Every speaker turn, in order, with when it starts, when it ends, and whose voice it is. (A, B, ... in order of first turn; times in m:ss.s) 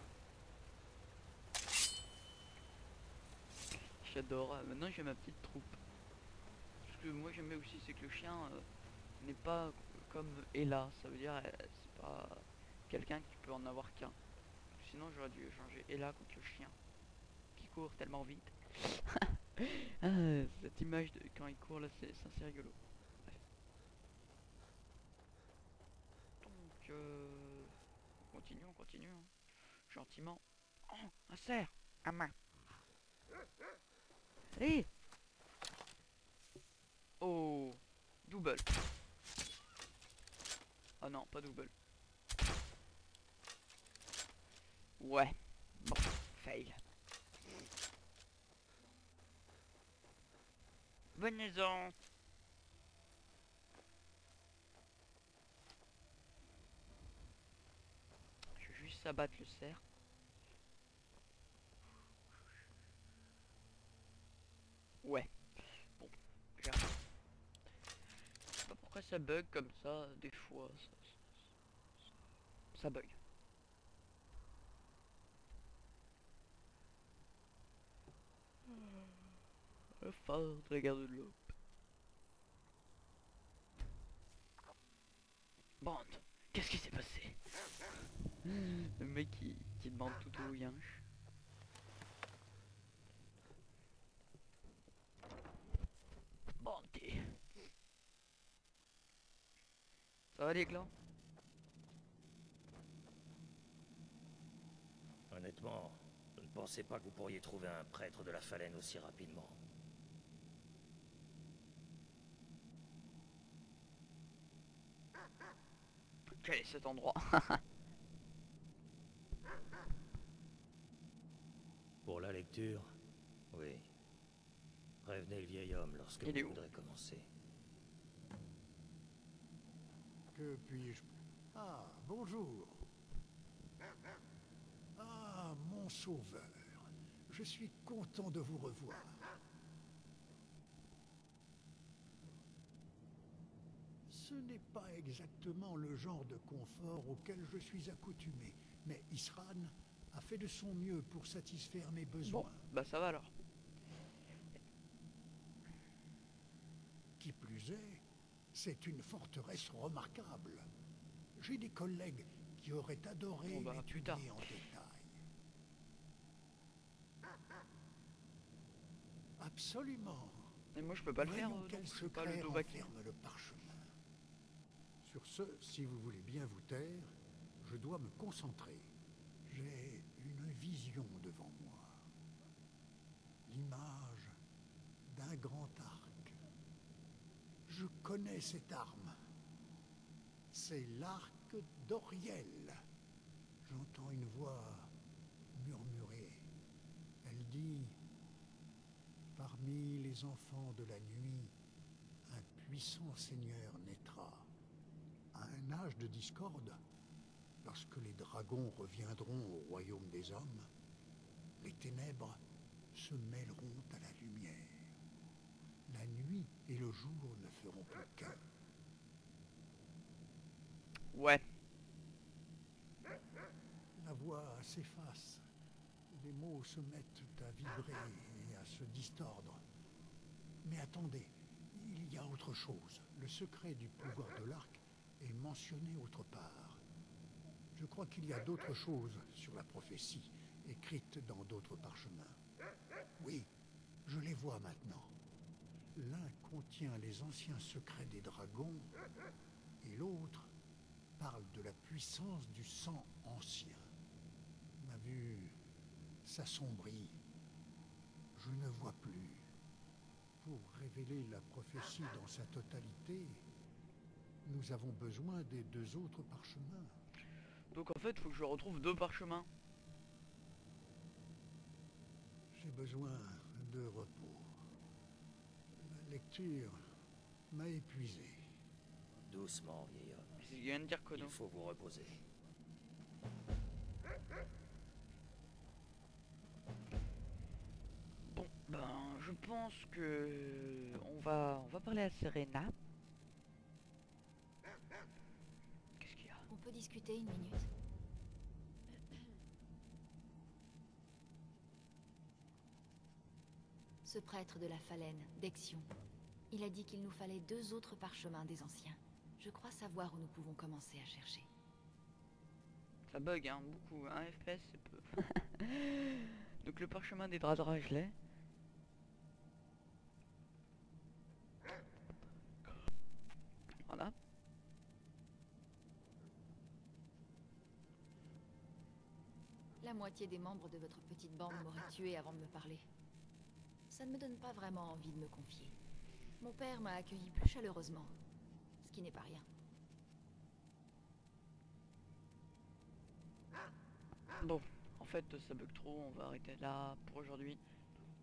0:03.8-0:05.8 A
0:06.8-0:08.7 A
0:09.2-0:14.2 A
0:14.7-0:16.8 A
0:17.5-0:23.4 A
0:26.4-0:27.8 A
0:28.3-0:29.3 A
0:29.8-0:32.3 A
0:34.5-0:34.9 A
0:37.2-0:38.7 A
0:41.0-0:41.7 A
0:45.0-0:46.8 A
0:51.1-0:51.9 A
0:58.6-0:59.8 A
1:05.0-1:07.1 A
1:08.6-1:11.3 A
1:12.7-1:13.2 A
1:18.7-1:19.1 A
1:20.0-1:21.5 A
1:25.8-1:27.7 A
1:28.4-1:31.0 A
1:36.6-1:37.4 A
1:40.3-1:40.9 A
1:45.3-1:49.6 B
1:56.4-1:57.6 A
2:02.0-2:02.9 B
2:03.5-2:03.8 B
2:05.0-2:07.3 B
2:06.2-2:06.6 A
2:10.3-2:12.9 C
2:15.0-2:19.3 C
2:24.1-2:32.6 C
2:32.2-2:33.3 A
2:37.2-2:40.7 C
2:41.4-2:45.1 C
2:43.4-2:44.3 A
2:49.4-2:50.5 C
2:50.7-2:52.9 A
2:51.2-2:53.9 C
2:55.0-2:58.9 C
2:59.4-3:02.0 C
3:03.4-3:04.4 C
3:05.1-3:06.4 C
3:07.6-3:09.1 C
3:10.5-3:12.8 C
3:13.6-3:14.9 C
3:15.5-3:16.4 C
3:17.2-3:18.0 C
3:19.3-3:21.5 C
3:22.3-3:24.5 C
3:25.3-3:26.8 C
3:27.6-3:30.7 C
3:31.6-3:32.4 C
3:32.9-3:34.8 C
3:35.9-3:38.4 C
3:41.1-3:41.4 A
3:44.0-3:45.4 C
3:46.1-3:49.6 C
3:50.6-3:56.8 C
3:57.7-4:02.4 C
4:03.2-4:03.5 C
4:04.0-4:05.1 C
4:05.9-4:08.9 C
4:09.8-4:10.5 C
4:11.2-4:13.8 C
4:14.8-4:15.6 C
4:16.2-4:17.2 C
4:18.3-4:19.5 C
4:20.4-4:23.4 C
4:24.4-4:26.9 C
4:27.7-4:29.5 A
4:32.5-4:34.6 C
4:35.8-4:36.8 C
4:37.5-4:38.4 C
4:39.2-4:40.3 B
4:40.4-4:41.4 A
4:41.1-4:42.2 B
4:48.2-4:52.7 A
4:56.0-4:56.5 A
4:56.5-4:57.7 D
5:04.0-5:05.8 D
5:06.5-5:11.5 D
5:13.1-5:18.1 A
5:23.8-5:24.1 A
5:29.8-5:32.8 D
5:33.9-5:35.8 D
5:36.4-5:38.1 D
5:38.8-5:39.4 D
5:44.4-5:47.6 A